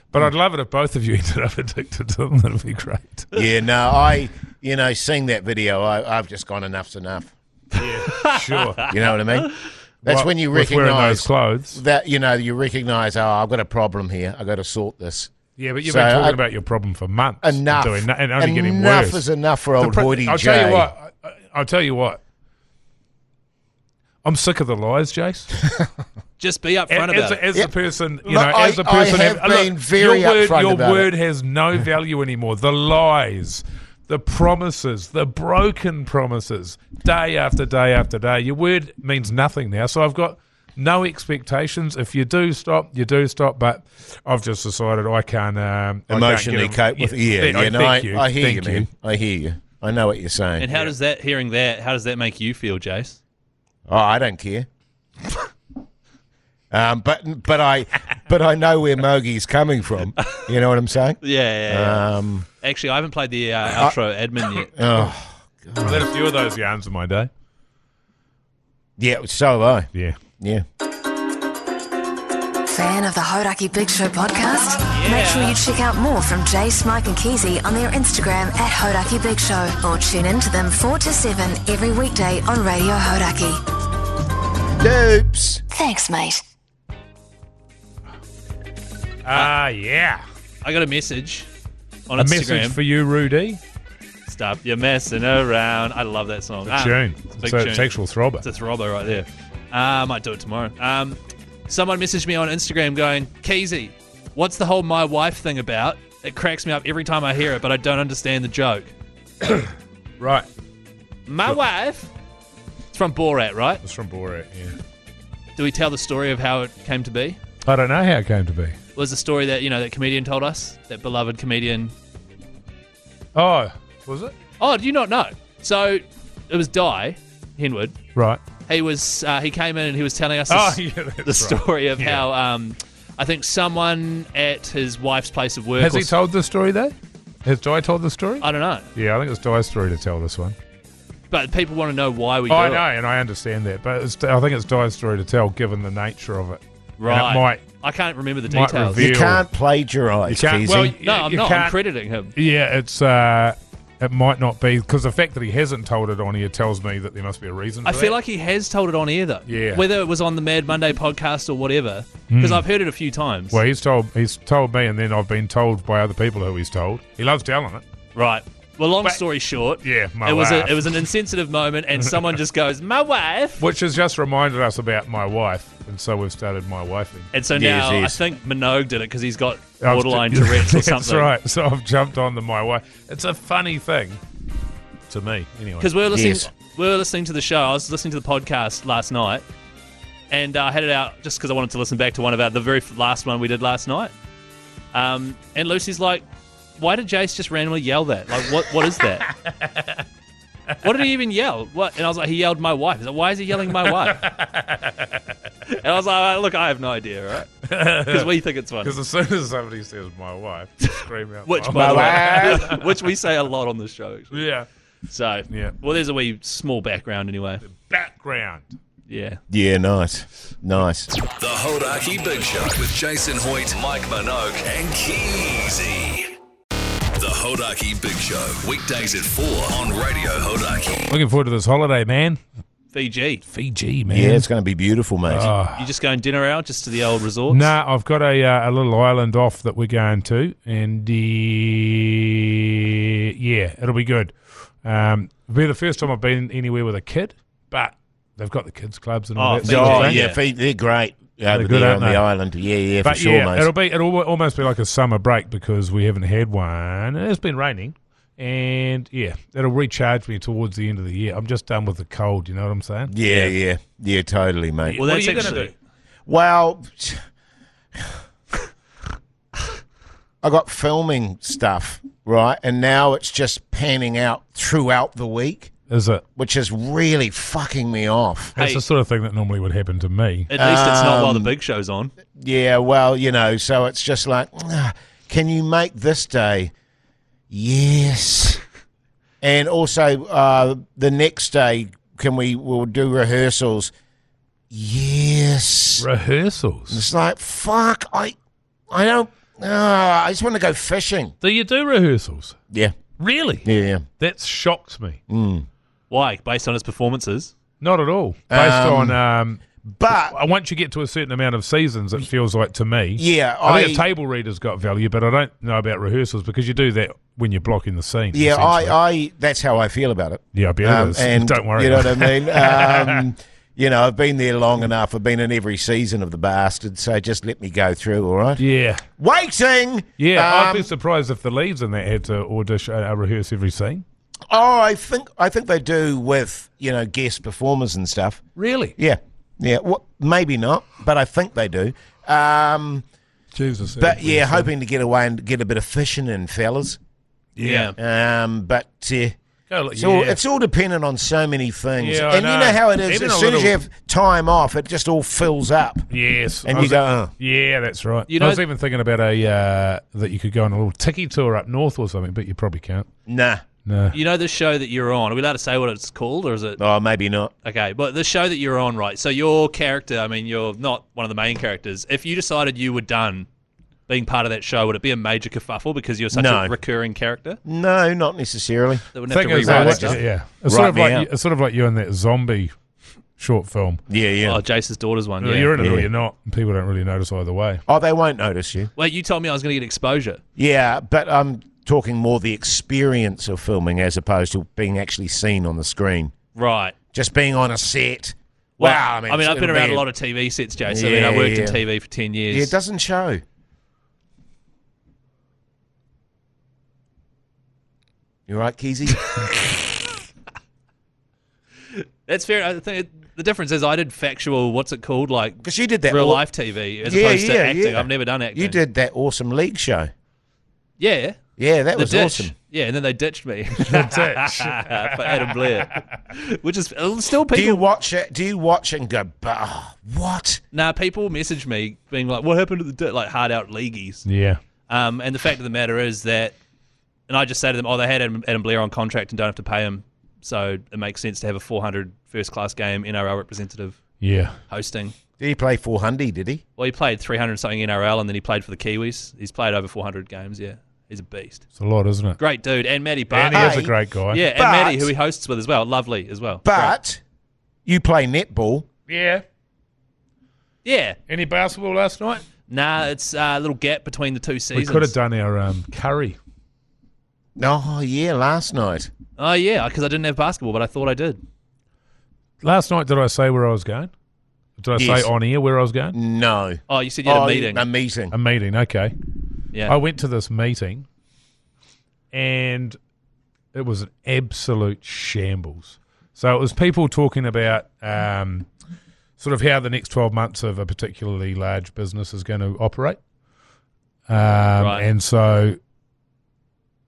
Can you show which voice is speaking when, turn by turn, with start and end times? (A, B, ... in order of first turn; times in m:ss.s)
0:00.1-0:03.3 A
0:03.3-0:07.3 B
0:07.8-0:08.8 A
0:08.0-0:08.9 C
0:08.9-0:09.5 B
0:10.0-0:15.3 B
0:10.0-0:11.8 A
0:15.6-0:19.2 A
0:15.8-0:16.4 B
0:17.4-0:20.9 B
0:19.8-0:22.2 A
0:24.2-0:25.5 A
0:26.4-0:27.5 C
0:26.9-0:48.9 A
0:28.2-0:31.1 B
0:46.1-0:50.8 B
0:50.6-0:53.2 C
0:53.9-0:54.7 B
0:56.7-1:02.4 B
1:00.2-1:00.5 C
1:01.2-1:02.1 C
1:02.6-1:04.7 C
1:04.6-1:06.1 B
1:05.8-1:07.3 A
1:09.0-1:10.6 B
1:09.9-1:10.2 A
1:12.6-1:23.6 D
1:14.9-1:15.6 C
1:24.8-1:25.6 B
1:25.7-1:26.4 D
1:29.2-1:30.2 A
1:30.6-1:31.5 C
1:32.1-1:32.8 C
1:32.2-1:33.6 A
1:34.3-1:48.9 C
1:36.7-1:38.4 A
1:49.4-1:50.5 A
1:51.2-1:52.1 C
1:52.9-1:53.8 C
1:53.8-1:54.8 A
1:55.6-1:57.4 C
1:57.6-1:58.8 A
1:59.0-2:01.9 C
2:03.3-2:04.3 A
2:04.6-2:08.0 C
2:08.1-2:08.4 A
2:08.6-2:16.1 C
2:10.5-2:12.3 A
2:15.8-2:20.6 A
2:18.4-2:18.9 C
2:21.3-2:22.9 C
2:22.5-2:27.6 A
2:27.0-2:29.1 C
2:28.4-2:29.5 A
2:29.0-2:30.9 B
2:30.3-2:31.8 A
2:30.8-2:32.3 C
2:32.3-2:38.2 A
2:37.8-2:43.6 C
2:39.4-2:39.8 A
2:42.3-2:42.7 A
2:43.5-2:47.8 A
2:48.1-2:53.6 C
2:49.8-2:51.1 A
2:51.9-2:52.2 A
2:53.6-2:57.3 A
2:57.3-3:01.3 C
2:57.5-2:58.2 B
2:59.8-3:04.2 A
3:05.1-3:05.9 A
3:05.8-3:09.4 C
3:06.1-3:06.5 B
3:10.3-3:14.1 C
3:14.9-3:16.2 C
3:16.8-3:19.3 C
3:18.7-3:20.0 A
3:20.8-3:24.2 C
3:23.6-3:25.4 A
3:25.7-3:28.9 C
3:27.6-3:28.3 A
3:28.8-3:32.8 A
3:31.4-3:34.4 C
3:31.7-3:32.7 B
3:34.3-3:34.7 A
3:35.1-3:37.6 C
3:35.5-3:35.7 A
3:37.6-3:38.7 A
3:39.1-3:39.4 C
3:39.5-3:41.1 B
3:41.4-3:46.3 E
3:47.2-3:51.0 E
3:51.1-3:52.4 A
3:52.9-3:53.4 C
3:53.5-3:54.5 A
3:54.1-3:55.5 B
3:55.3-3:55.8 A
3:55.8-3:57.7 C
3:57.5-4:10.2 A
4:09.4-4:10.4 C
4:09.6-4:13.7 B
4:11.5-4:12.2 A
4:13.0-4:23.1 A
4:23.1-4:25.6 B
4:23.2-4:23.5 C
4:24.8-4:25.7 A
4:25.0-4:25.7 C
4:26.2-4:27.2 B
4:30.4-4:35.7 B
4:35.9-4:36.2 A
4:36.4-4:38.5 B
4:38.6-4:38.8 C
4:38.6-4:40.5 A
4:40.5-4:42.1 C
4:40.6-4:41.5 B
4:42.4-4:46.7 B
4:47.5-4:48.6 B
4:49.4-4:53.9 B
4:54.7-4:56.0 B
4:56.0-4:57.0 A
4:56.9-4:58.4 B
4:58.9-5:01.3 B
5:01.4-5:02.6 A
5:03.2-5:03.7 A
5:03.6-5:04.0 B
5:04.2-5:05.2 A
5:05.3-5:05.7 B
5:06.1-5:07.5 C
5:07.8-5:19.0 A
5:08.5-5:09.2 B
5:09.9-5:10.4 B
5:13.2-5:14.0 B
5:18.3-5:28.6 B
5:20.5-5:23.3 A
5:28.6-5:29.0 A
5:29.2-5:30.9 B
5:30.2-5:34.0 A
5:34.5-5:38.4 B
5:38.6-5:38.9 A
5:39.0-5:43.0 B
5:43.5-5:44.7 A
5:44.0-5:47.0 B
5:47.6-5:47.9 A
5:47.6-5:47.9 C
5:48.0-5:49.4 B
5:49.7-5:50.4 A
5:49.9-5:56.1 B
5:52.0-5:53.8 A
5:56.1-6:03.1 A
5:56.6-5:57.3 B
5:58.3-5:58.6 C
6:03.3-6:03.6 B
6:03.8-6:04.2 A
6:04.1-6:06.8 C
6:06.8-6:07.5 B
6:07.6-6:13.5 C
6:14.1-6:17.6 C
6:16.3-6:16.7 B
6:17.6-6:19.0 B
6:19.1-6:20.2 C
6:19.3-6:22.7 A
6:19.6-6:21.3 B
6:23.4-6:24.0 A
6:24.1-6:24.6 B
6:24.4-6:25.8 C
6:25.4-6:27.8 A
6:25.8-6:26.1 B
6:27.9-6:28.9 B
6:29.0-6:30.4 C
6:30.6-6:36.3 B
6:36.6-6:36.9 C
6:37.1-6:40.0 B
6:38.8-6:42.7 C
6:40.8-6:41.8 B
6:42.5-6:43.4 B
6:48.5-6:49.8 B
6:52.2-6:58.8 C
6:55.6-6:56.4 B
6:57.0-7:00.1 B
7:01.0-7:01.4 C
7:01.6-7:02.5 B
7:01.9-7:07.8 C
7:03.7-7:05.9 A
7:07.5-7:10.6 B
7:10.7-7:14.2 C
7:14.2-7:14.6 A
7:14.9-7:16.5 C
7:17.3-7:24.0 C
7:24.2-7:24.5 A
7:24.7-7:25.1 C
7:25.4-7:26.6 B
7:26.8-7:31.6 C
7:31.8-7:32.4 A
7:32.4-7:37.0 C
7:33.3-7:34.4 A
7:33.5-7:33.9 B
7:34.5-7:35.1 B
7:36.6-7:37.2 B
7:37.8-7:38.8 B
7:39.1-7:39.4 A
7:40.8-7:41.2 C
7:41.3-7:42.4 A
7:42.7-7:45.1 C
7:44.7-7:46.4 A
7:47.6-7:49.1 B
7:49.4-7:51.4 C
7:52.6-7:54.1 A
7:54.8-7:56.2 A
7:54.9-7:55.3 B
7:56.1-7:58.3 B
7:56.9-7:57.8 C
7:58.3-7:59.1 A
7:59.8-8:01.0 A
8:02.3-8:03.0 A
8:03.7-8:08.7 A
8:09.4-8:13.2 A
8:14.3-8:15.8 A
8:14.8-8:15.1 C